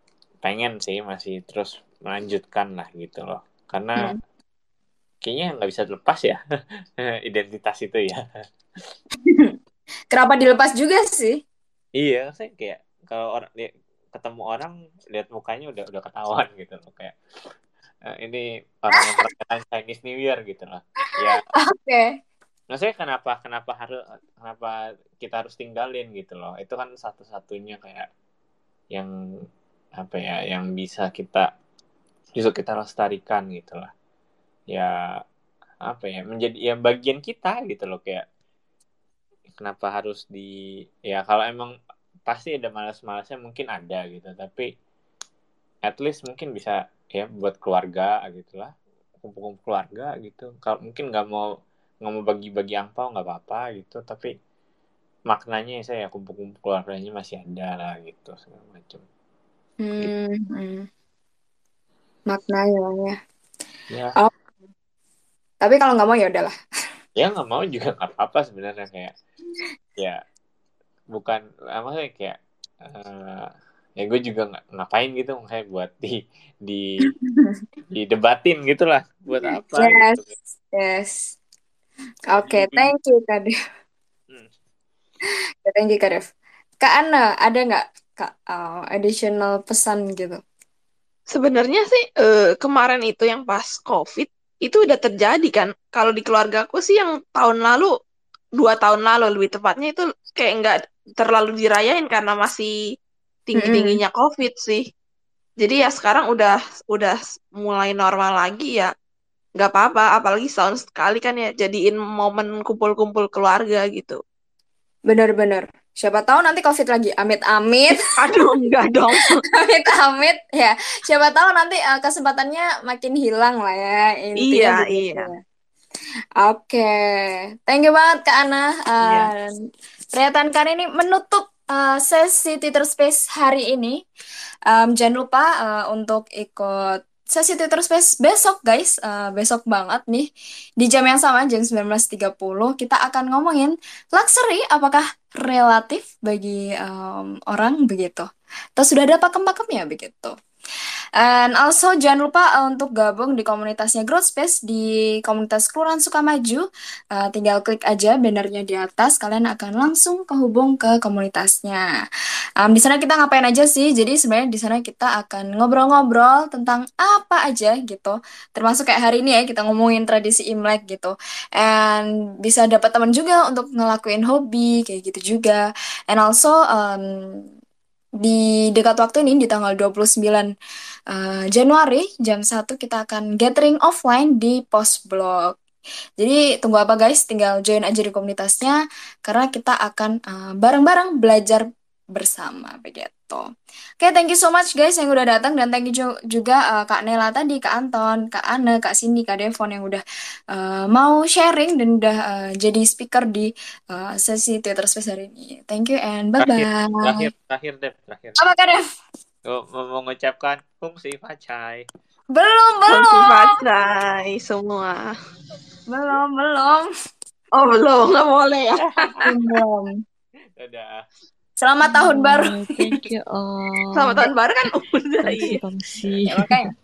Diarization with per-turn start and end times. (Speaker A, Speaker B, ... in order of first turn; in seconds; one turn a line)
Speaker A: 0.4-4.1
Speaker A: 5.2-6.4
Speaker A: 7.0-8.2
Speaker B: 9.3-9.5
Speaker B: 10.1-11.4
Speaker A: 12.0-17.1
Speaker A: 18.1-21.4
Speaker B: 21.6-22.1
Speaker A: 22.7-28.1
Speaker A: 30.0-31.5
Speaker A: 32.4-33.9
Speaker A: 35.9-38.2
Speaker A: 39.6-40.5
Speaker A: 41.1-41.7
Speaker A: 42.3-44.7
Speaker A: 45.8-48.7
Speaker A: 49.2-51.5
Speaker A: 52.0-54.3
Speaker A: 55.3-59.0
Speaker B: 59.8-60.9
Speaker B: 62.3-63.2
Speaker B: 65.6-66.5
Speaker A: 67.2-69.1
Speaker A: 71.1-73.5
Speaker A: 74.0-76.9
Speaker B: 77.3-77.6
Speaker A: 78.0-80.3
Speaker B: 79.8-80.2
Speaker B: 80.7-81.2
Speaker B: 82.3-83.5
Speaker A: 82.4-82.9
Speaker B: 85.7-86.3
Speaker B: 86.8-90.4
Speaker C: 91.3-97.9
Speaker C: 98.6-102.7
Speaker C: 103.5-104.8
Speaker B: 103.6-104.0
Speaker C: 105.6-108.9
Speaker C: 109.6-114.2
Speaker B: 115.1-118.0
Speaker C: 118.2-119.4
Speaker B: 119.5-125.4
Speaker C: 124.4-125.3
Speaker B: 126.4-129.5
Speaker C: 129.0-129.3
Speaker B: 130.2-134.0
Speaker B: 134.7-136.8
Speaker B: 137.3-140.3
Speaker B: 140.8-150.3
Speaker B: 151.2-161.8
Speaker B: 162.6-177.1
Speaker B: 178.2-180.5
Speaker B: 181.1-185.5
Speaker B: 186.2-191.6
Speaker B: 192.2-193.4
Speaker B: 194.0-200.0
Speaker B: 200.5-207.3
Speaker A: 206.4-208.4
Speaker B: 208.4-208.8
Speaker A: 209.5-211.8
Speaker B: 212.3-213.6
Speaker C: 212.9-215.1
Speaker B: 215.9-216.9
Speaker C: 217.6-219.3
Speaker B: 219.2-219.9
Speaker A: 220.6-221.0
Speaker B: 221.6-222.6
Speaker D: 221.9-224.3
Speaker C: 224.0-225.6
Speaker D: 225.2-226.6
Speaker B: 226.3-226.7